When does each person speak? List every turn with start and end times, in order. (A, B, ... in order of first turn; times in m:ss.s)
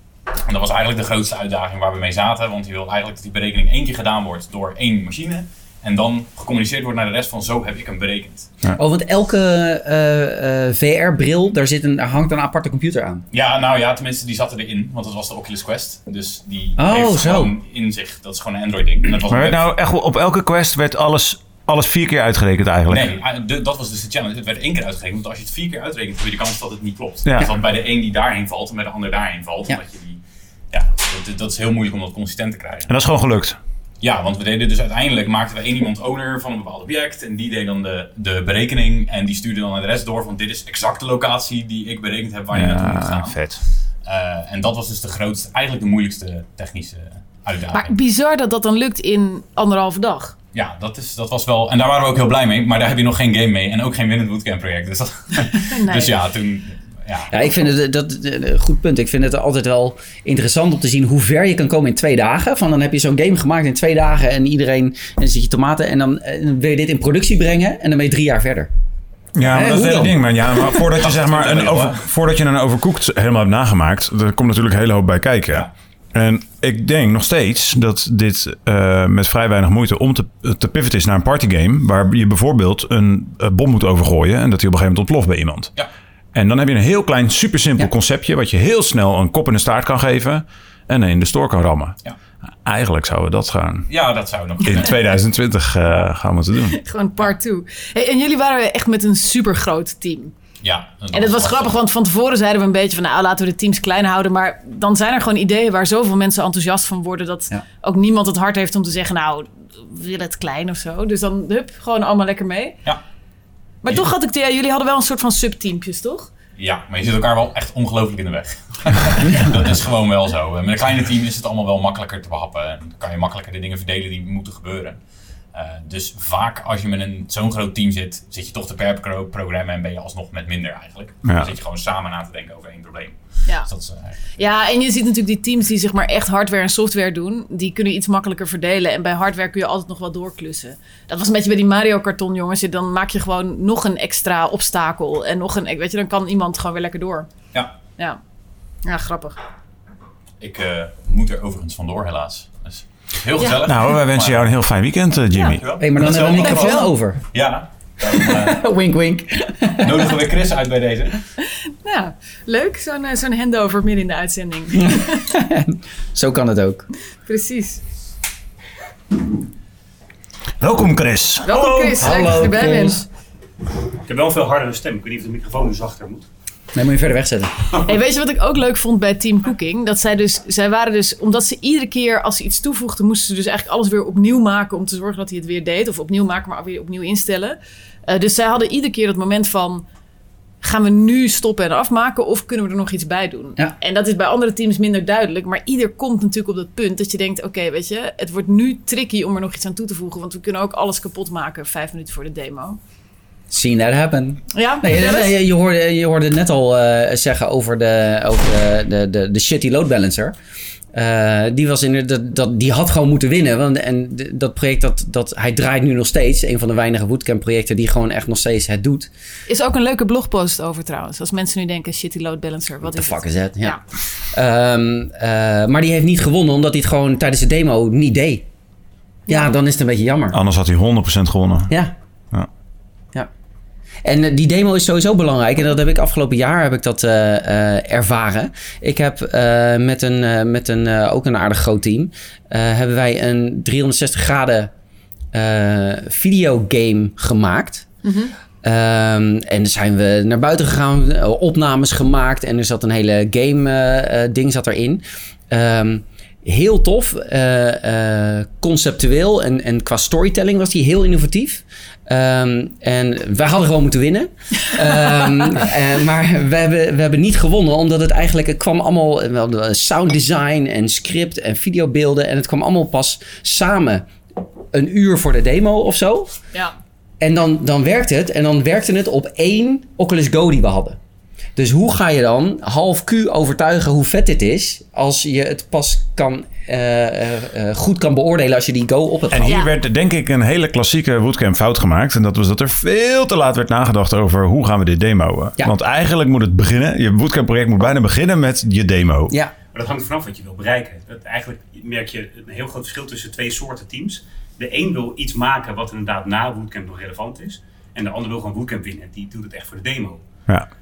0:00.4-0:08.5 A
0:08.8-0:13.2 B
0:13.3-0:19.7 A
0:16.8-0:17.5 B
0:19.3-0:23.1 C
0:22.9-0:30.2 A
0:27.2-0:27.5 C
0:30.7-0:32.9 A
0:32.9-0:33.6 C
0:34.0-0:43.4 A
0:42.5-0:43.6 C
0:44.0-0:47.9 A
0:47.7-0:50.3 D
0:50.5-0:57.3 A
0:55.7-0:56.1 D
0:57.3-1:08.7 B
1:09.3-1:25.7 C
1:09.4-1:10.4 B
1:11.0-1:12.0 A
1:26.3-1:32.0 C
1:32.6-1:33.9 C
1:33.9-1:35.0 A
1:34.6-1:36.8 C
1:36.7-1:40.3 D
1:40.6-1:41.7 A
1:41.1-1:52.8 D
1:53.8-1:56.3 D
1:56.6-2:05.0 A
2:05.5-2:14.1 A
2:11.2-2:11.5 C
2:14.4-2:27.3 D
2:28.8-2:29.4 D
2:30.4-2:34.5 A
2:33.6-2:35.8 C
2:35.4-2:38.6 A
2:35.8-2:37.2 B
2:36.4-2:36.9 D
2:38.2-2:40.1 B
2:39.8-2:41.2 A
2:41.8-2:45.2 D
2:45.1-2:46.8 B
2:47.2-2:47.8 D
2:50.6-2:52.5 C
2:51.4-2:53.0 D
2:52.0-2:52.9 B
2:54.0-2:56.3 E
2:56.7-2:57.5 B
2:57.8-3:09.8 D
3:10.6-3:22.8 D
3:23.5-3:30.4 B
3:24.5-3:25.3 D
3:30.9-3:39.1 B
3:39.5-3:43.8 D
3:42.8-3:43.8 B
3:44.3-3:48.4 B
3:49.3-3:50.4 B
3:50.3-3:51.7 C
3:54.0-4:04.7 B
4:05.3-4:07.9 B
4:08.0-4:08.3 D
4:08.6-4:34.1 B
4:34.7-4:36.3 B
4:37.2-4:41.0 B
4:41.6-4:49.6 B
4:49.3-4:59.4 C
4:49.4-4:49.7 D
4:59.7-5:10.2 E